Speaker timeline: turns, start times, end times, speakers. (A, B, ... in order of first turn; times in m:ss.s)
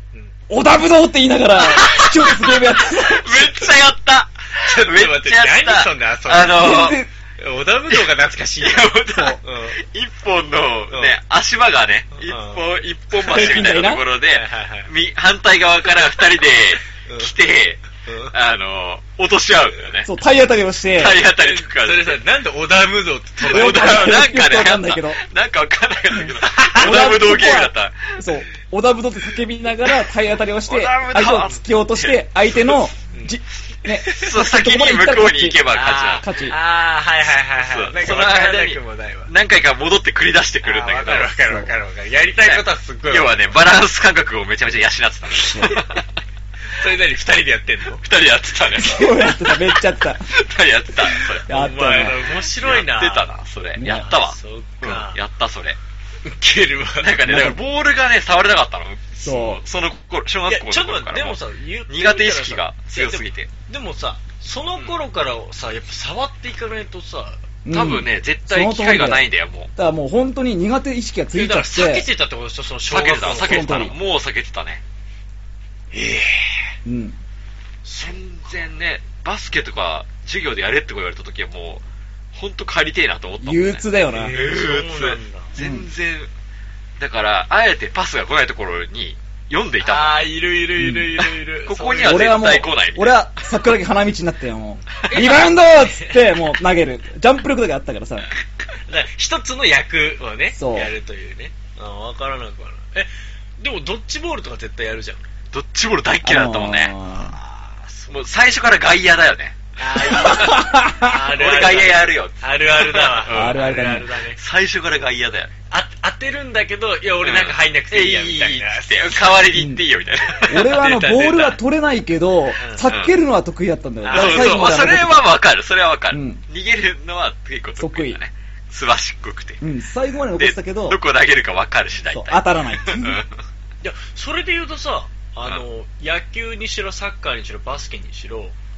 0:00.5-0:03.6 A
0:01.6-0:07.0 B
0:04.6-0:09.8 C
0:06.5-0:07.1 A
0:08.6-0:20.1 B
0:09.1-0:09.4 A
0:10.9-0:11.2 C
0:12.1-0:12.6 C
0:13.2-0:14.0 A
0:13.2-0:13.8 C
0:14.3-0:14.9 C
0:17.0-0:17.3 C
0:18.0-0:18.3 C
0:20.0-0:21.2 A
0:20.9-0:22.2 B
0:21.2-0:24.2 C
0:23.4-0:28.3 B
0:23.5-0:25.2 A
0:26.5-0:27.1 C
0:26.6-0:35.6 A
0:30.7-0:32.8 B
0:34.1-0:36.3 B
0:35.7-0:39.3 C
0:36.2-0:36.6 A
0:37.5-0:41.4 B
0:40.6-0:43.5 C
0:42.4-0:46.1 B
0:45.5-0:45.8 C
0:46.7-0:48.0 C
0:48.0-0:49.7 B
0:48.8-0:50.2 A
0:50.3-0:51.5 B
0:51.0-0:53.3 C
0:51.5-0:52.4 A
0:52.5-0:55.8 B
0:53.8-0:54.1 A
0:53.9-0:55.2 C
0:56.2-0:57.2 C
0:57.0-1:03.5 B
0:57.2-0:57.6 A
0:59.2-0:59.6 A
1:00.5-1:07.5 C
1:07.6-1:12.1 A
1:07.7-1:09.7 B
1:11.3-1:13.9 C
1:12.9-1:14.8 B
1:13.2-1:14.0 A
1:15.9-1:16.7 C
1:16.8-1:17.2 A
1:17.8-1:18.6 C
1:18.0-1:26.3 B
1:23.4-1:24.4 A
1:24.1-1:25.6 C
1:25.6-1:25.9 A
1:27.0-1:30.2 B
1:29.8-1:32.5 C
1:30.8-1:31.1 A
1:31.6-1:33.2 B
1:32.0-1:38.3 A
1:34.9-1:36.4 C
1:38.8-1:45.2 C
1:40.5-1:40.9 A
1:45.5-1:46.9 B
1:46.2-1:47.4 A
1:47.2-1:48.1 C
1:48.1-1:50.7 B
1:49.8-1:54.4 C
1:50.1-1:51.2 A
1:51.3-1:53.7 B
1:53.3-1:54.1 A
1:54.3-1:55.5 B
1:55.7-1:59.5 C
1:57.2-2:00.7 B
1:59.5-1:59.8 A
2:00.4-2:01.6 C
2:00.4-2:05.3 A
2:02.6-2:02.9 C
2:02.8-2:03.1 B
2:04.0-2:04.8 C
2:04.1-2:09.6 B
2:06.1-2:06.4 A
2:07.8-2:08.2 A
2:09.6-2:11.0 A
2:10.3-2:13.4 B
2:12.1-2:13.2 A
2:13.8-2:18.5 C